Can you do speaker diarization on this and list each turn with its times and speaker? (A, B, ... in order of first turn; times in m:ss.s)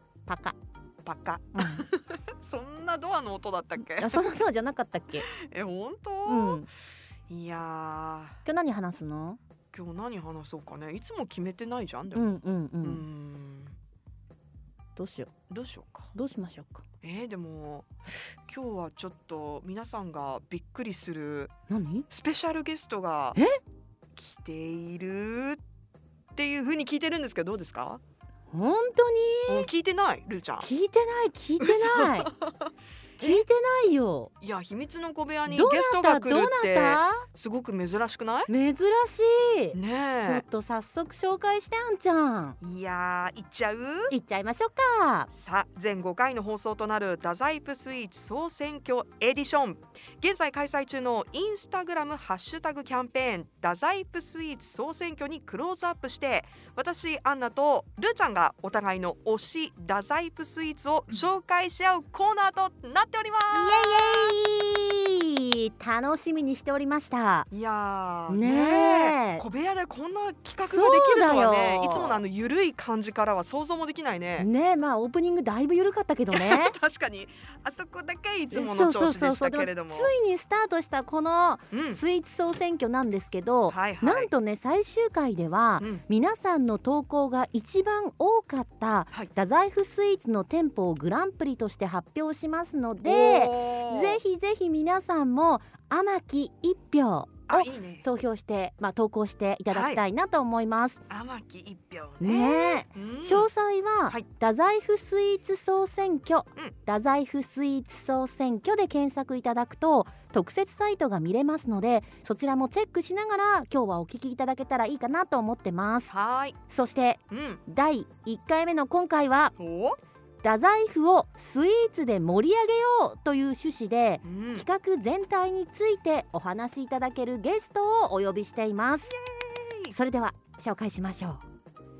0:00.3-0:00.6 A
0:01.0-0:04.2 B
0:01.6-0:01.8 A
0:03.8-0:05.2 A
0:05.2-0:06.7 B
0:06.2-0:06.6 A
0:07.3-0:08.4 B
0:08.4-0:09.4 A
0:09.7-0:13.7 B
0:12.1-0:13.0 A
0:15.0-0:15.3 A
0:15.5-0:16.1 B
0:16.1-0:16.8 A
0:17.0-0:21.5 B
0:21.7-0:22.0 A
0:22.1-0:23.4 B
0:24.2-0:25.6 B
0:26.3-0:28.0 B
0:28.5-0:29.7 A
0:29.5-0:30.7 B
0:30.6-0:32.3 A
0:31.6-0:33.4 B
0:33.2-0:34.3 A
0:34.4-0:38.5 B
0:35.5-0:37.2 A
0:38.5-0:42.6 A
0:39.7-0:40.4 B
0:42.6-0:44.1 B
0:44.1-0:45.3 A
0:45.3-1:04.4 B
1:03.5-1:07.5 A
1:07.5-1:14.5 B
1:08.3-1:09.4 A
1:10.6-1:12.2 A
1:14.4-1:16.7 A
1:16.3-1:20.1 B
1:18.5-1:41.0 A
1:21.7-1:22.0 B
1:23.7-1:24.3 B
1:25.8-1:26.0 B
1:33.0-1:34.2 B
1:37.5-1:38.0 B
1:39.7-1:40.0 B
1:41.1-1:43.5 B
1:42.2-1:56.1 A
1:56.1-1:56.6 B
1:56.7-1:59.5 A
1:57.3-1:57.6 B
1:59.6-2:00.0 B
2:00.4-2:09.1 A
2:04.2-2:04.6 B
2:09.1-2:09.9 B
2:09.9-2:11.4 A